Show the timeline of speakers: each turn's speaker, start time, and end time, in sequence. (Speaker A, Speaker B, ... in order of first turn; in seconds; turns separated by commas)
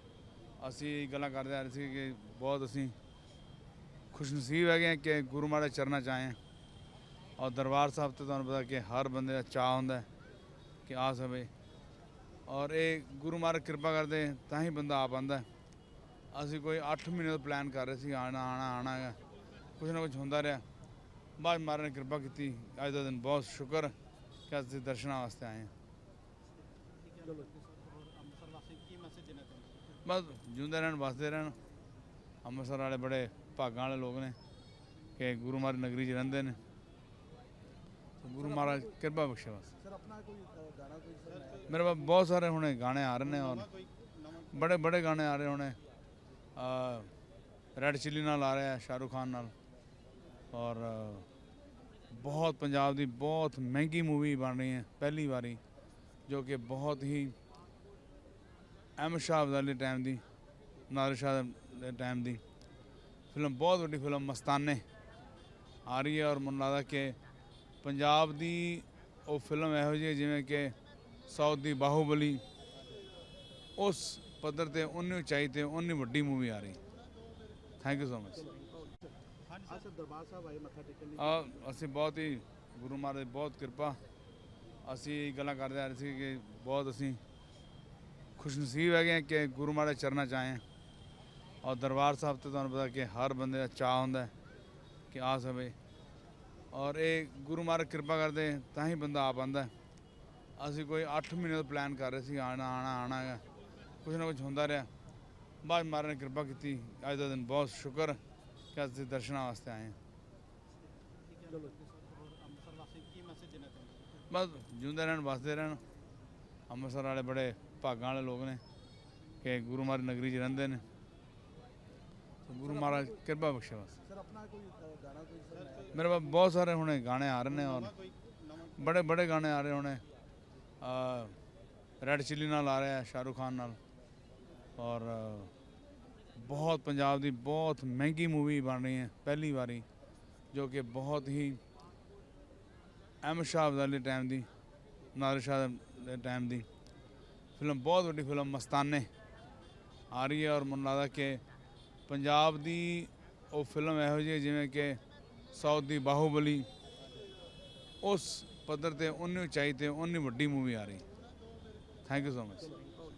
Speaker A: 0.6-3.0, Speaker A: 4.1-6.4, Speaker A: 7.4-10.1, Speaker A: 10.9-11.5, Speaker A: 12.5-15.5, Speaker A: 16.3-19.2, Speaker A: 19.8-20.6, Speaker A: 21.4-23.9, Speaker A: 24.5-25.7, Speaker B: 27.3-29.7, Speaker A: 30.0-31.6, Speaker A: 32.4-34.4, Speaker A: 35.2-36.6, Speaker A: 38.2-39.7, Speaker C: 39.8-41.7, Speaker A: 41.7-43.7, Speaker A: 44.5-45.8, Speaker A: 46.6-47.1, Speaker A: 47.8-49.5, Speaker A: 50.5-51.3, Speaker A: 52.1-55.6, Speaker A: 56.3-57.4, Speaker A: 59.0-60.2, Speaker A: 60.9-62.4, Speaker A: 63.3-64.8, Speaker A: 65.9-67.2, Speaker A: 67.8-70.8, Speaker A: 71.3-72.4, Speaker A: 73.8-76.8, Speaker A: 77.8-78.5, Speaker C: 79.7-81.1, Speaker A: 81.2-84.0, Speaker A: 84.8-87.2, Speaker A: 88.4-90.6, Speaker A: 91.6-94.3, Speaker A: 95.1-95.8, Speaker A: 96.7-99.7, Speaker A: 100.6-103.4, Speaker A: 104.0-104.9, Speaker A: 105.6-108.2, Speaker A: 108.7-110.0, Speaker B: 111.7-114.0, Speaker A: 114.3-115.8, Speaker A: 116.7-118.6, Speaker A: 119.4-120.8, Speaker A: 122.5-124.0, Speaker C: 124.1-125.9, Speaker A: 125.9-128.0, Speaker A: 128.8-130.0, Speaker A: 130.8-131.4, Speaker A: 132.0-133.8, Speaker A: 134.8-135.5, Speaker A: 136.4-139.9, Speaker A: 140.5-141.6, Speaker A: 143.2-144.5, Speaker A: 145.2-146.7, Speaker A: 147.6-149.1, Speaker A: 150.1-151.4, Speaker A: 152.1-155.0, Speaker A: 155.5-156.7, Speaker A: 158.0-161.1, Speaker A: 162.1-162.8